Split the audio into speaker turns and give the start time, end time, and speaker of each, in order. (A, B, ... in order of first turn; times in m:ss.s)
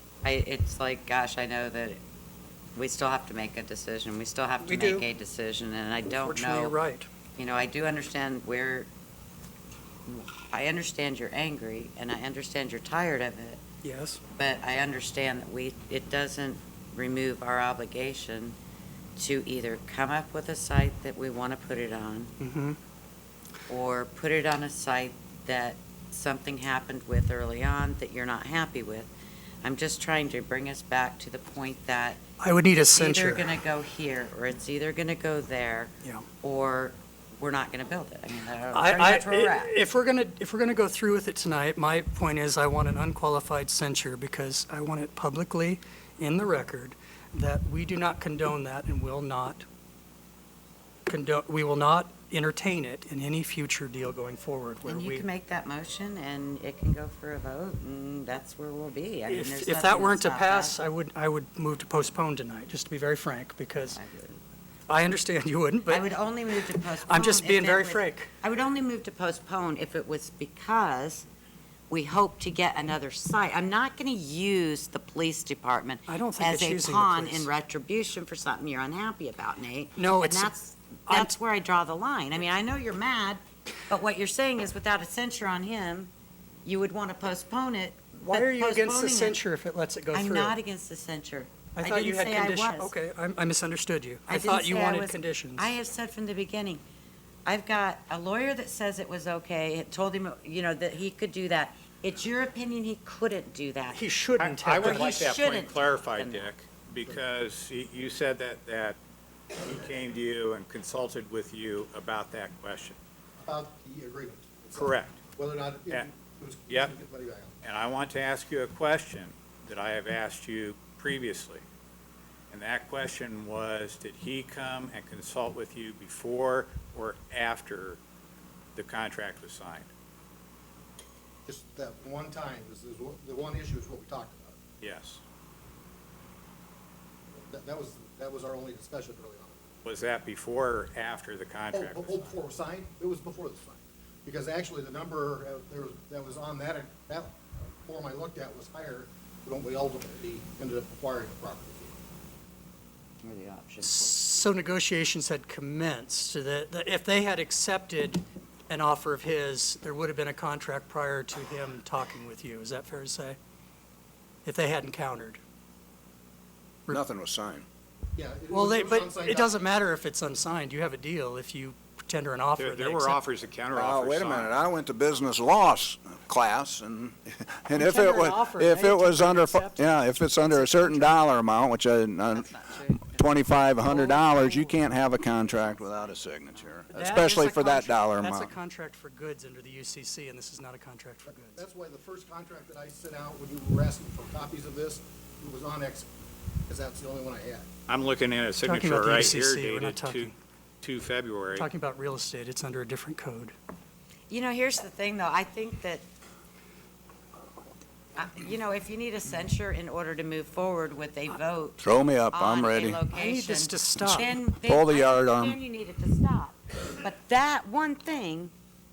0:00.2-0:02.0 A
0:02.8-0:06.8 A
0:04.6-0:05.1 B
0:06.1-0:07.1 B
0:07.4-0:08.9 A
0:10.1-0:13.6 A
0:13.8-0:14.2 B
0:14.3-0:18.6 A
0:19.2-0:22.3 A
0:22.4-0:22.8 B
0:23.7-0:29.1 A
0:29.6-0:32.2 A
0:32.4-0:33.5 B
0:32.8-0:35.9 A
0:36.0-0:36.3 B
0:36.4-0:39.7 A
0:38.7-0:49.6 B
0:51.1-0:55.2 B
0:54.8-1:00.8 A
0:59.3-1:04.0 B
1:03.9-1:04.4 A
1:04.9-1:06.1 B
1:05.9-1:11.2 A
1:06.7-1:08.3 B
1:11.9-1:26.1 A
1:16.1-1:17.5 B
1:20.0-1:21.3 B
1:26.6-1:29.4 A
1:28.2-1:30.6 B
1:30.1-1:32.9 A
1:31.8-1:35.7 B
1:34.3-1:36.8 A
1:37.4-1:44.0 A
1:43.9-1:45.2 B
1:44.4-1:49.0 C
1:44.8-1:46.5 A
1:49.6-1:53.0 C
1:53.4-1:57.6 D
1:54.7-1:55.2 C
1:56.7-1:56.9 C
1:57.6-2:01.6 C
2:02.5-2:08.0 C
2:08.8-2:09.9 C
2:11.4-2:14.6 D
2:14.8-2:15.2 C
2:17.4-2:19.6 D
2:19.8-2:22.4 C
2:21.7-2:31.9 D
2:33.2-2:34.2 A
2:33.8-2:43.4 B
2:44.4-2:45.4 B
2:46.9-2:47.6 E
2:48.2-2:49.5 D
2:48.5-2:53.2 B
2:52.6-2:54.6 C
2:53.7-3:02.5 E
2:57.7-3:01.2 B
3:02.3-3:03.5 A
3:03.1-3:08.5 E
3:03.9-3:04.6 B
3:04.4-3:07.0 A
3:06.9-3:11.6 B
3:11.3-3:16.1 D
3:16.7-3:17.7 D
3:17.9-3:21.7 C
3:18.6-3:20.3 B
3:21.5-3:23.5 B
3:24.3-3:26.0 A
3:28.2-3:38.5 A
3:31.8-3:33.0 E
3:33.1-3:34.4 B
3:34.6-3:35.6 E